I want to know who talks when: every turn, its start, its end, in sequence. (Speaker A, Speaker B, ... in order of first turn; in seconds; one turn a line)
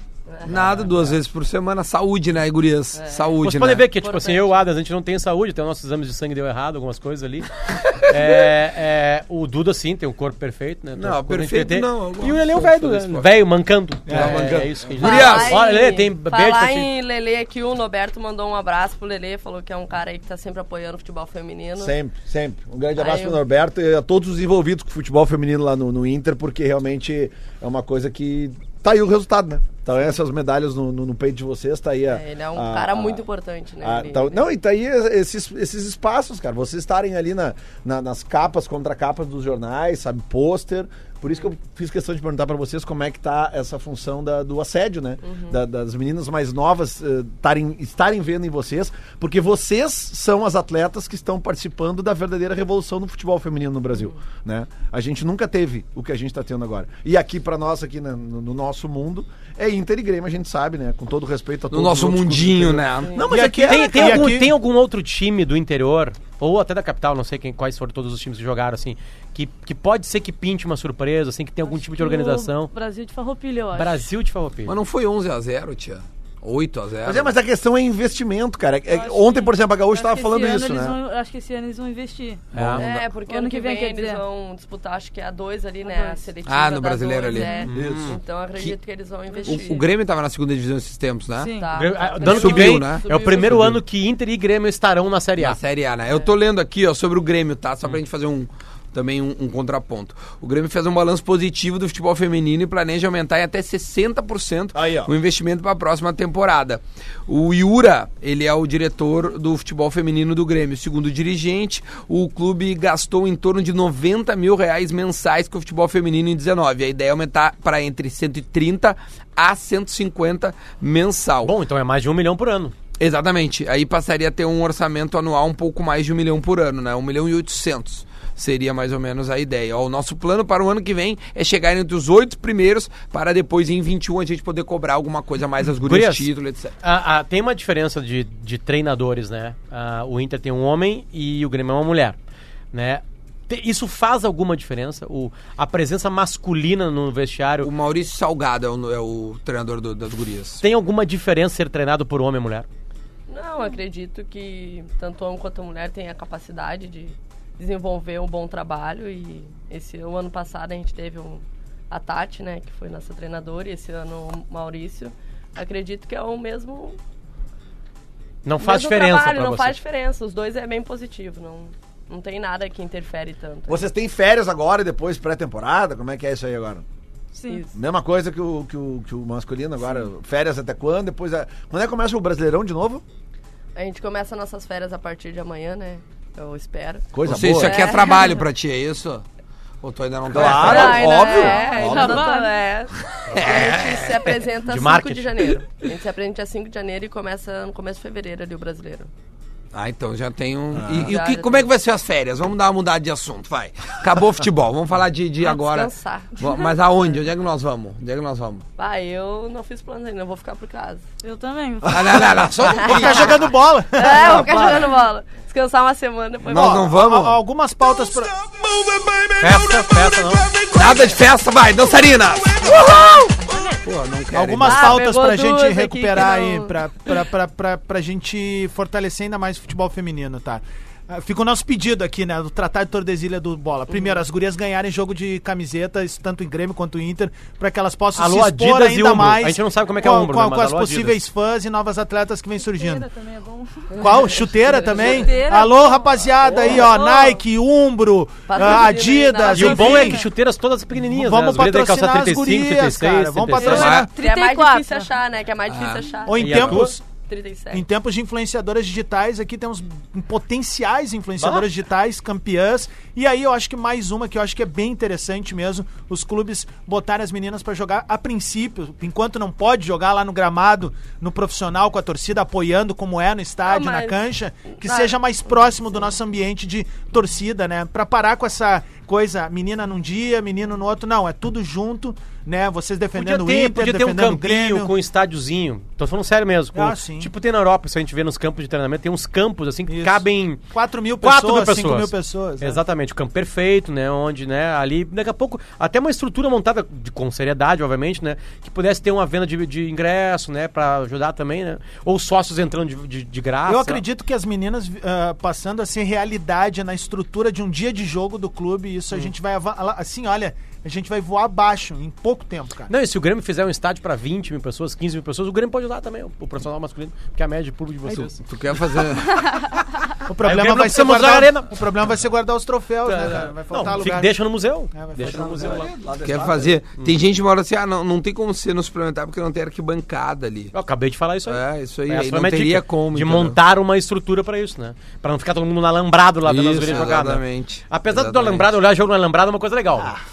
Speaker A: 0.3-0.8
Speaker B: 0.4-3.8
Speaker A: 2.9-3.4
Speaker C: 3.4-16.9
Speaker A: 3.9-4.6
Speaker B: 11.0-13.3
Speaker D: 14.1-14.5
Speaker B: 14.1-15.6
Speaker E: 14.1-14.7
Speaker A: 15.0-21.9
Speaker E: 21.8-33.2
Speaker A: 22.9-23.4
Speaker A: 32.1-34.5
Speaker E: 33.8-64.3
Speaker A: 45.2-45.6
Speaker B: 61.7-63.3
Speaker D: 63.2-64.5
Speaker C: 63.6-72.7
Speaker F: 71.7-74.0
Speaker C: 73.7-74.8
Speaker B: 74.7-77.3
Speaker E: 77.0-81.0
Speaker F: 78.9-82.5
Speaker C: 82.5-82.8
Speaker E: 82.5-82.8
Speaker A: 82.8-89.8
Speaker F: 83.2-84.2
Speaker F: 85.8-86.2
Speaker B: 86.5-87.5
Speaker F: 87.2-87.7
Speaker C: 87.6-88.2
Speaker E: 87.7-88.2
Speaker F: 89.3-89.8
Speaker B: 89.5-91.5
Speaker F: 91.4-91.7
Speaker A: 91.5-93.8
Speaker C: 91.7-95.6
Speaker B: 92.2-93.0
Speaker B: 95.4-121.5
Speaker E: 104.7-105.1
Speaker C: 121.4-122.7
Speaker B: 123.0-136.7
Speaker C: 135.8-136.3
Speaker C: 136.8-142.2
Speaker C: 142.7-147.7
Speaker B: 147.6-150.6
Speaker C: 150.6-152.7
Speaker A: 153.3-167.0
Speaker C: 168.4-169.7
Speaker A: 168.6-173.8
Speaker E: 173.7-176.8
Speaker F: 177.3-177.7
Speaker E: 177.7-183.0
Speaker A: 183.8-188.4
Speaker E: 187.1-187.9
Speaker B: 187.2-189.2
Speaker B: 189.8-191.2
Speaker E: 190.3-192.3
Speaker A: 190.4-199.1
Speaker F: 191.2-192.5
Speaker B: 193.2-194.4
Speaker C: 194.7-195.6
Speaker B: 199.7-208.6
Speaker E: 200.7-201.1
Speaker A: 201.0-201.7
Speaker A: 205.4-206.6
Speaker A: 208.8-211.0
Speaker F: 211.2-212.4
Speaker B: 211.9-213.4
Speaker A: 212.7-213.3
Speaker D: 212.8-214.5
Speaker A: 213.9-216.9
Speaker B: 214.4-214.8
Speaker B: 216.5-217.4
Speaker D: 216.5-218.3
Speaker C: 219.4-220.5
Speaker B: 220.7-225.0
Speaker D: 224.3-243.1
Speaker A: 224.6-227.2
Speaker C: 238.1-241.2
Speaker F: 242.6-247.4
Speaker D: 244.0-250.2
Speaker A: 244.7-245.3
Speaker A: 248.5-250.1
Speaker C: 249.5-253.9
Speaker F: 249.8-250.2
Speaker D: 250.9-254.1
Speaker F: 253.6-255.1
Speaker B: 253.7-254.1
Speaker A: 254.2-257.9
Speaker B: 255.7-256.0
Speaker D: 256.2-257.0
Speaker C: 256.4-256.9
Speaker D: 257.7-284.9
Speaker C: 261.4-261.6
Speaker A: 273.6-274.2
Speaker A: 274.7-275.1
Speaker C: 283.1-290.6
Speaker D: 286.7-287.3
Speaker D: 289.9-292.8
Speaker C: 291.2-304.0
Speaker D: 303.6-312.9
Speaker C: 312.9-318.4
Speaker B: 318.1-319.6
Speaker D: 320.3-324.4
Speaker C: 320.4-321.8
Speaker C: 323.0-325.9
Speaker D: 324.9-325.6
Speaker E: 325.2-326.8
Speaker B: 326.2-330.7
Speaker C: 330.7-340.1
Speaker B: 331.4-333.6
Speaker B: 336.4-338.7